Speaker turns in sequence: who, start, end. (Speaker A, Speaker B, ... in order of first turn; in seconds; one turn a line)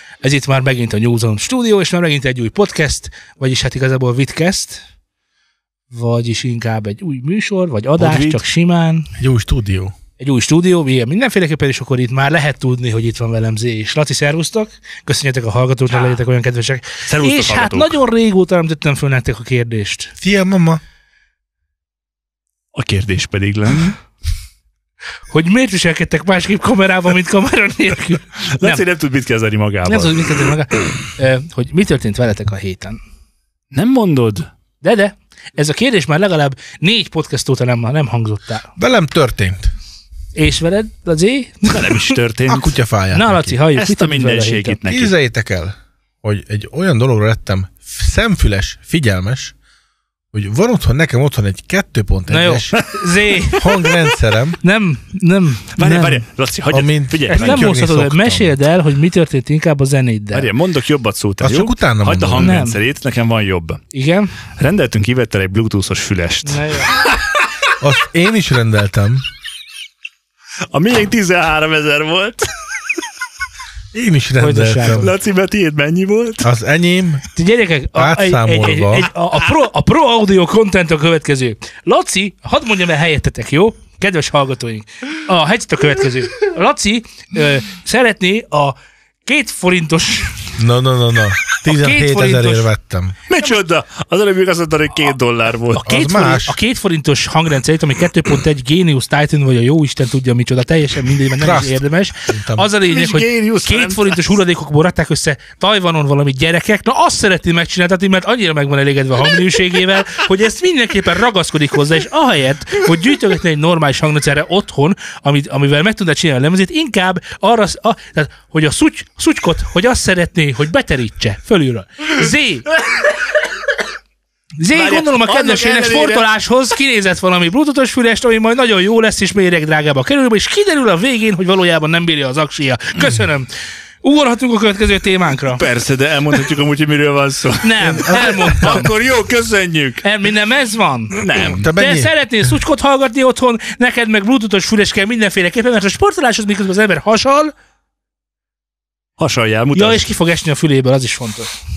Speaker A: 0.2-4.8
Speaker A: 5.9-9.1
Speaker B: 8.0-8.4
Speaker C: 9.2-9.9
Speaker A: 10.2-20.1
Speaker B: 17.1-18.0
Speaker C: 20.2-20.8
Speaker B: 22.7-24.0
Speaker A: 25.3-28.8
Speaker B: 28.5-30.3
Speaker A: 29.9-33.0
Speaker B: 33.7-34.5
Speaker A: 34.8-38.7
Speaker C: 38.8-39.7
Speaker A: 40.4-42.2
Speaker B: 41.7-42.8
Speaker C: 42.5-43.6
Speaker A: 43.1-44.8
Speaker B: 43.8-45.1
Speaker C: 44.9-49.5
Speaker C: 50.3-52.8
Speaker A: 52.3-53.6
Speaker B: 53.4-54.1
Speaker C: 53.5-54.6
Speaker A: 54.6-56.2
Speaker B: 55.8-57.7
Speaker C: 56.7-58.6
Speaker A: 57.3-60.5
Speaker B: 60.3-63.8
Speaker C: 61.4-62.6
Speaker A: 62.4-62.8
Speaker A: 63.9-64.3
Speaker B: 64.6-67.3
Speaker A: 66.5-67.0
Speaker C: 67.8-69.2
Speaker B: 70.7-72.5
Speaker C: 73.9-75.1
Speaker A: 74.4-75.1
Speaker B: 74.8-76.5
Speaker C: 76.4-77.2
Speaker A: 77.3-90.6
Speaker C: 78.0-79.1
Speaker C: 90.6-93.2
Speaker A: 91.7-92.7
Speaker B: 93.3-95.8
Speaker A: 95.7-122.7
Speaker C: 95.8-96.6
Speaker C: 101.4-102.7
Speaker B: 102.8-104.4
Speaker A: 124.6-135.6
Speaker B: 124.7-126.3
Speaker B: 135.6-140.0
Speaker A: 137.6-138.9
Speaker C: 137.9-138.5
Speaker A: 140.0-147.5
Speaker B: 141.2-141.7
Speaker C: 141.5-142.1
Speaker B: 149.2-150.1
Speaker A: 149.8-151.5